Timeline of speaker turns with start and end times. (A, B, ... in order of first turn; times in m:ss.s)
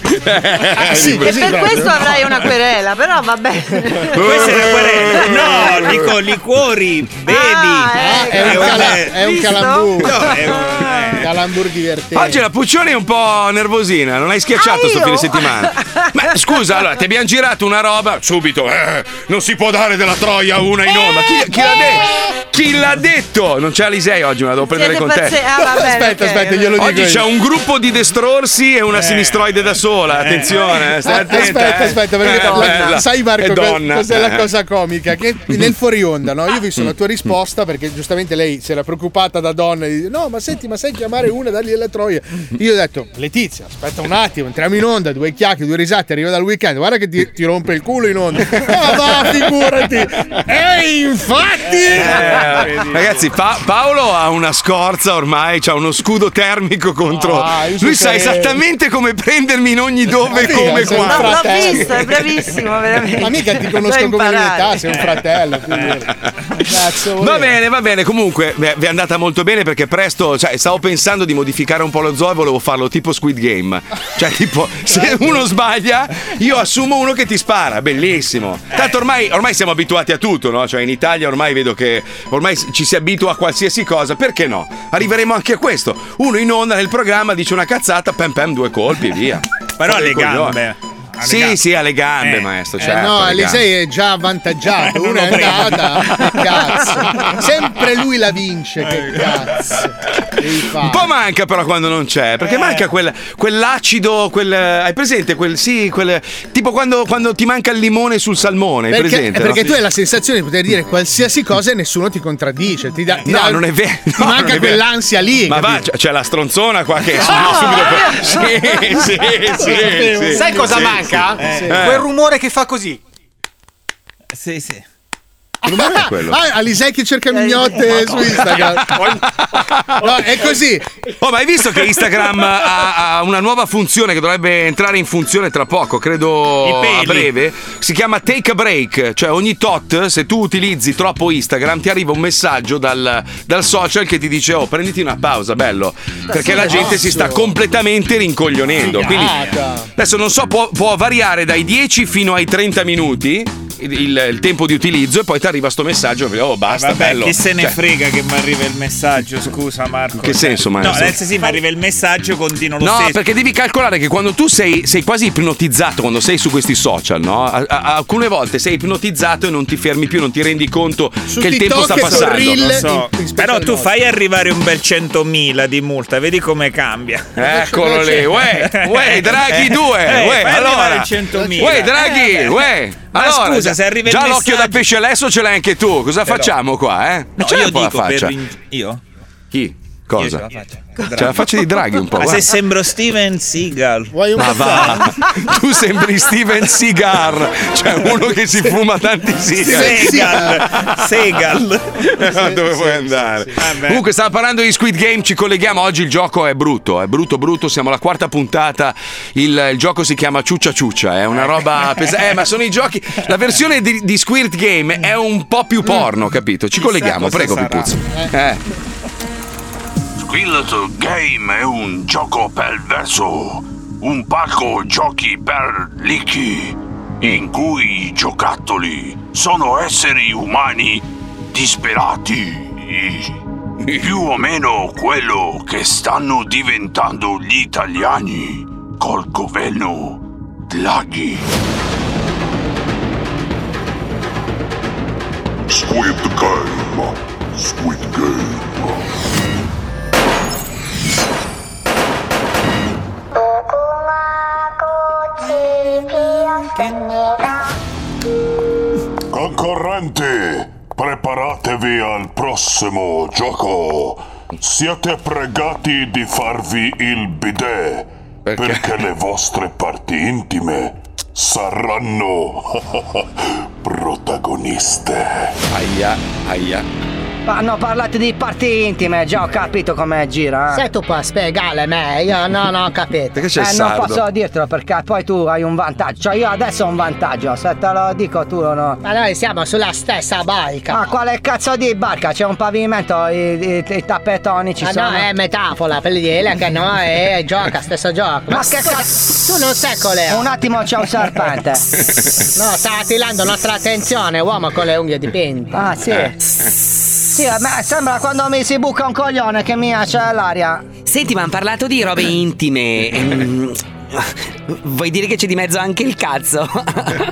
0:00.1-0:01.4 A
0:00.8-0:02.4 B
0:01.2-0:04.8 C
0:04.1-0:09.2 D
0:04.4-0:05.5 A
0:07.3-0:11.0 C
0:08.0-0:10.3 B
0:10.0-0:11.3 D
0:11.1-0:12.4 B
0:12.1-0:25.5 A
0:14.5-0:16.1 C
0:24.6-0:26.8 C
0:25.6-0:27.3 B
0:26.8-0:34.4 A
0:28.9-0:29.5 D
0:30.1-0:31.4 D
0:31.0-0:52.6 B
0:32.2-0:32.9 C
0:51.7-0:53.3 D
0:52.0-1:02.0 A
0:57.1-0:58.6 B
1:00.3-1:02.1 B
1:00.5-1:04.8 C
1:03.2-1:07.6 B
1:04.9-1:06.0 D
1:06.6-1:30.6 A
1:14.9-1:15.5 B
1:29.8-1:31.6 D
1:31.2-1:33.6 A
1:32.2-1:32.5 D
1:32.8-1:41.1 B
1:34.8-1:37.5 D
1:38.8-1:39.8 D
1:40.8-1:49.7 A
1:42.4-1:42.9 D
1:48.9-1:55.8 B
1:53.3-1:54.8 A
1:55.5-2:01.2 A
1:57.2-1:59.0 C
1:59.6-2:01.9 B
2:00.2-2:03.0 E
2:01.4-2:01.8 D
2:01.7-2:02.0 A
2:04.4-2:04.8 D
2:05.6-2:09.1 B
2:05.7-2:06.4 A
2:07.3-2:07.8 C
2:08.0-2:08.3 D
2:08.9-2:09.2 E
2:09.4-2:10.2 A
2:10.0-2:10.9 B
2:11.2-2:29.4 A
2:16.6-2:17.3 D
2:26.3-2:27.6 B
2:26.6-2:26.9 D
2:28.6-2:29.6 D
2:28.8-2:29.9 B
2:30.0-2:37.8 A
2:36.6-2:43.2 D
2:40.2-2:41.2 A
2:42.8-2:52.7 A
2:51.3-2:53.9 B
2:51.8-2:57.3 D
2:57.4-3:08.3 A
2:57.4-2:58.4 B
2:58.4-3:04.8 D
3:01.3-3:02.0 B
3:06.2-3:06.5 D
3:07.4-3:09.0 D
3:09.5-3:10.4 A
3:10.2-3:11.5 D
3:11.1-3:12.5 A
3:12.1-3:15.1 D
3:14.1-3:15.1 B
3:14.4-3:21.0 A
3:19.6-3:20.6 B
3:19.6-3:24.0 D
3:22.2-3:38.6 A
3:31.3-3:32.3 D
3:36.7-3:37.9 D
3:40.2-4:01.5 F
4:05.7-4:09.1 G
4:19.3-4:35.6 G
4:28.4-4:28.8 A
4:35.7-4:36.8 A
4:37.5-4:49.0 H
4:43.3-4:44.2 A
4:49.0-4:51.1 B
4:50.9-4:56.0 H
4:54.8-4:55.5 B
4:56.2-5:00.4 B
4:58.5-5:01.8 H
5:02.6-5:03.1 B
5:02.8-5:04.4 H
5:04.1-5:05.8 B
5:05.7-5:06.4 H
5:07.3-5:10.8 H
5:11.1-5:13.7 I
5:14.8-5:16.7 I